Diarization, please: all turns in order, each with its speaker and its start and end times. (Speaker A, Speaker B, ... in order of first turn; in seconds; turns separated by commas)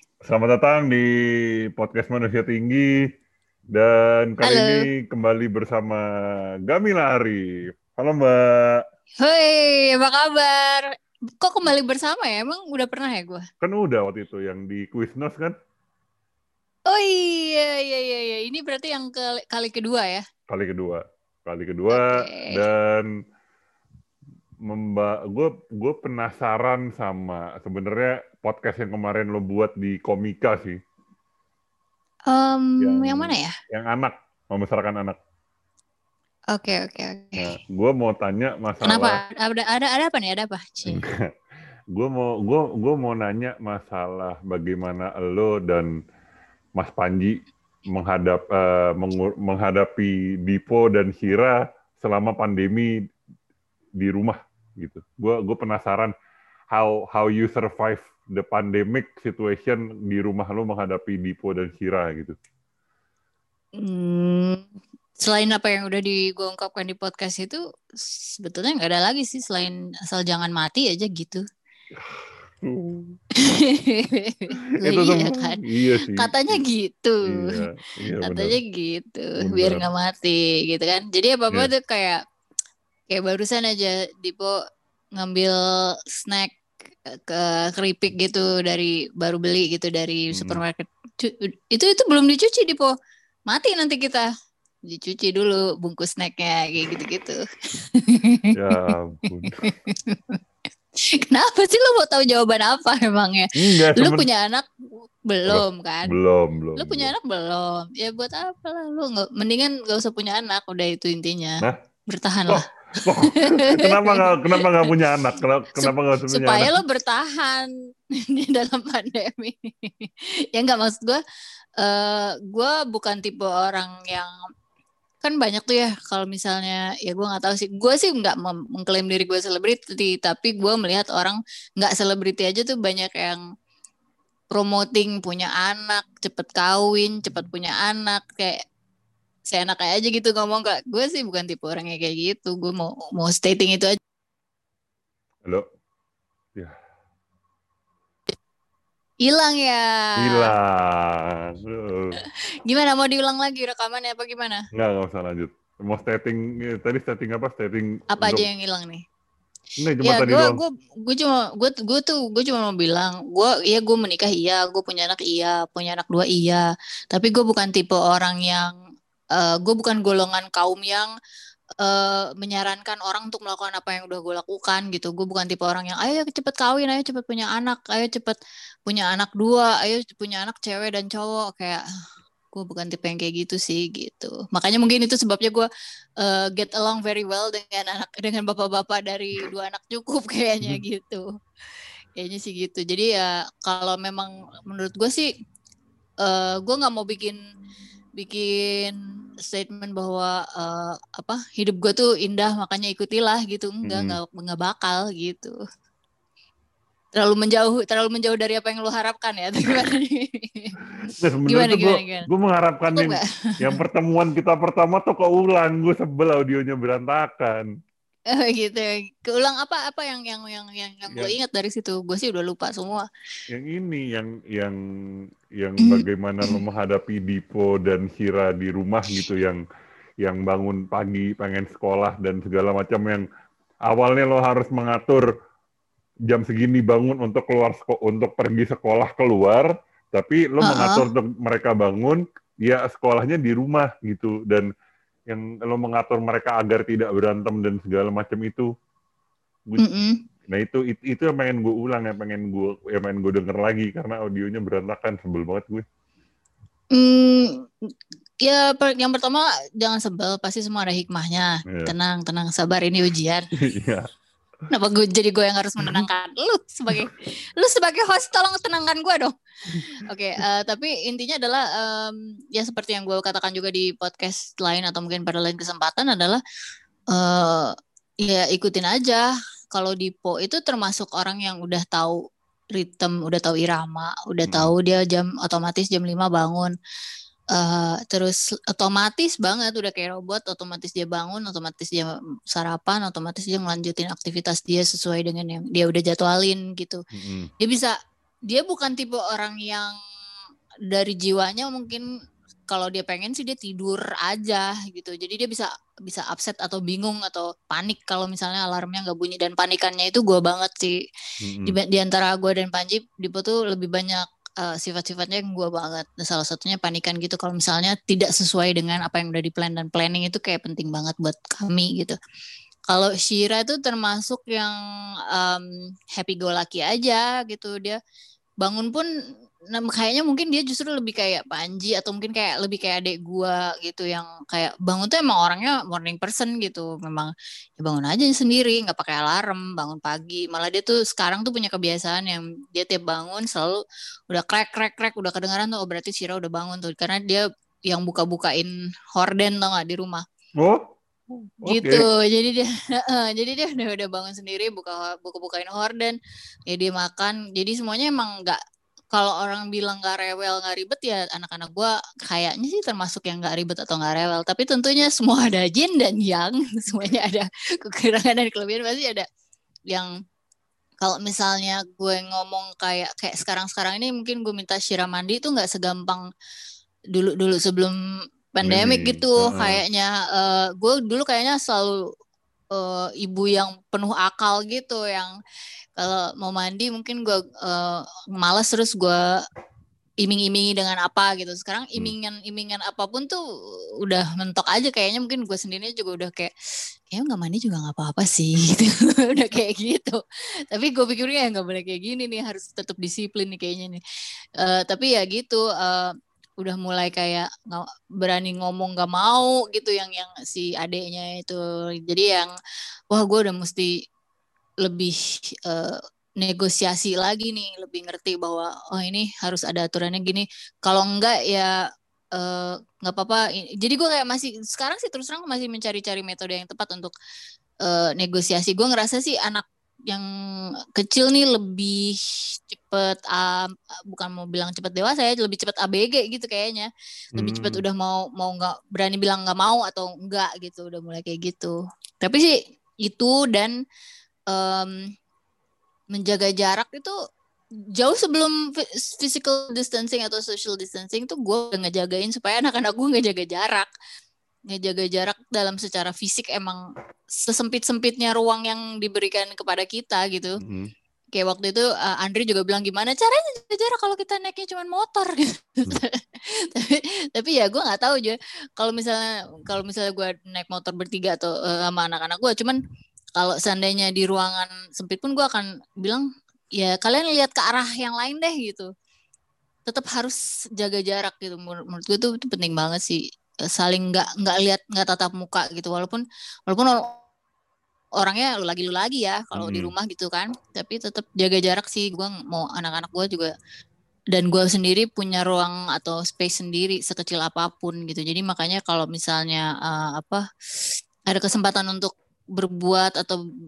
Speaker A: 0.2-1.1, Speaker A: 1.7-2.9, Speaker A: 3.7-6.0, Speaker B: 4.4-4.8, Speaker A: 6.6-8.8, Speaker B: 9.2-13.4, Speaker A: 13.6-15.5, Speaker B: 16.9-20.2, Speaker A: 20.5-23.1, Speaker B: 21.9-22.6, Speaker A: 24.7-30.8, Speaker B: 32.3-33.5, Speaker A: 32.8-35.2, Speaker B: 36.5-37.5, Speaker A: 37.4-39.2, Speaker B: 38.9-41.0, Speaker A: 40.9-41.2, Speaker A: 41.9-45.9, Speaker A: 46.8-52.9, Speaker A: 54.0-56.1, Speaker A: 56.7-62.4, Speaker B: 63.8-64.6, Speaker B: 65.2-71.4, Speaker A: 71.9-73.2, Speaker B: 73.3-77.6, Speaker A: 74.7-76.6, Speaker A: 77.2-78.6, Speaker B: 78.2-82.2, Speaker A: 79.4-79.8, Speaker B: 83.1-84.5, Speaker B: 85.2-92.9, Speaker A: 90.3-90.6, Speaker B: 93.5-94.2, Speaker B: 94.9-100.4, Speaker A: 98.5-99.6, Speaker B: 101.0-106.1, Speaker A: 103.5-104.3, Speaker A: 105.5-107.1, Speaker B: 106.8-114.9, Speaker A: 112.5-116.8, Speaker B: 115.8-121.2, Speaker B: 121.8-124.3, Speaker B: 125.2-133.4, Speaker B: 134.5-138.6, Speaker B: 139.5-144.0, Speaker B: 149.2-150.5, Speaker A: 150.2-152.2, Speaker B: 152.2-154.6, Speaker A: 154.7-158.4, Speaker B: 158.1-159.0, Speaker A: 159.8-160.6, Speaker B: 160.0-168.7, Speaker B: 169.3-171.1, Speaker B: 171.8-181.8, Speaker B: 182.5-185.7, Speaker B: 186.2-191.2, Speaker B: 192.2-195.3, Speaker B: 196.2-197.4, Speaker B: 198.2-205.5, Speaker A: 203.8-204.2, Speaker B: 207.1-210.8, Speaker A: 211.2-217.7, Speaker B: 211.5-212.3, Speaker B: 212.9-213.8, Speaker B: 218.3-223.0, Speaker A: 223.5-224.8, Speaker A: 225.6-229.6, Speaker B: 225.8-226.6, Speaker A: 230.2-233.2, Speaker A: 233.9-235.2, Speaker A: 236.3-244.7, Speaker B: 240.6-241.1, Speaker A: 245.3-248.7, Speaker B: 249.8-250.2, Speaker A: 250.5-255.8, Speaker B: 256.9-257.6, Speaker B: 258.4-263.4, Speaker A: 263.6-264.1, Speaker B: 264.7-276.4, Speaker A: 265.8-266.1, Speaker B: 277.1-282.2, Speaker B: 282.7-286.7, Speaker B: 287.5-297.0, Speaker A: 297.1-297.5, Speaker B: 297.6-297.9, Speaker B: 298.5-299.9, Speaker B: 300.9-302.0, Speaker B: 302.7-311.0, Speaker A: 311.4-311.8, Speaker B: 311.6-322.1, Speaker B: 322.9-324.8, Speaker B: 325.3-328.0, Speaker B: 328.6-329.1, Speaker B: 329.7-350.2, Speaker A: 350.6-352.1, Speaker B: 351.6-356.1, Speaker B: 356.7-358.6, Speaker B: 359.1-369.2, Speaker B: 371.0-376.2, Speaker B: 377.1-377.9, Speaker B: 378.6-382.0, Speaker A: 378.6-379.8, Speaker B: 382.7-385.3, Speaker B: 386.0-389.2, Speaker B: 390.2-393.4, Speaker B: 394.0-396.5, Speaker B: 397.1-400.2, Speaker B: 400.7-404.0, Speaker B: 404.6-412.5, Speaker B: 413.1-413.9, Speaker B: 414.8-421.8, Speaker B: 422.3-427.1, Speaker B: 427.8-430.2, Speaker B: 430.9-443.7, Speaker A: 437.3-437.8, Speaker B: 444.5-445.0, Speaker B: 446.1-447.1, Speaker B: 447.9-453.9, Speaker B: 454.7-456.8, Speaker B: 457.3-460.6, Speaker A: 460.6-460.9, Speaker B: 461.3-472.8, Speaker B: 473.4-476.2, Speaker B: 476.8-478.9, Speaker B: 479.9-483.2, Speaker B: 483.7-487.2, Speaker B: 488.2-493.5, Speaker A: 489.5-489.9, Speaker B: 494.3-500.4, Speaker B: 501.3-503.4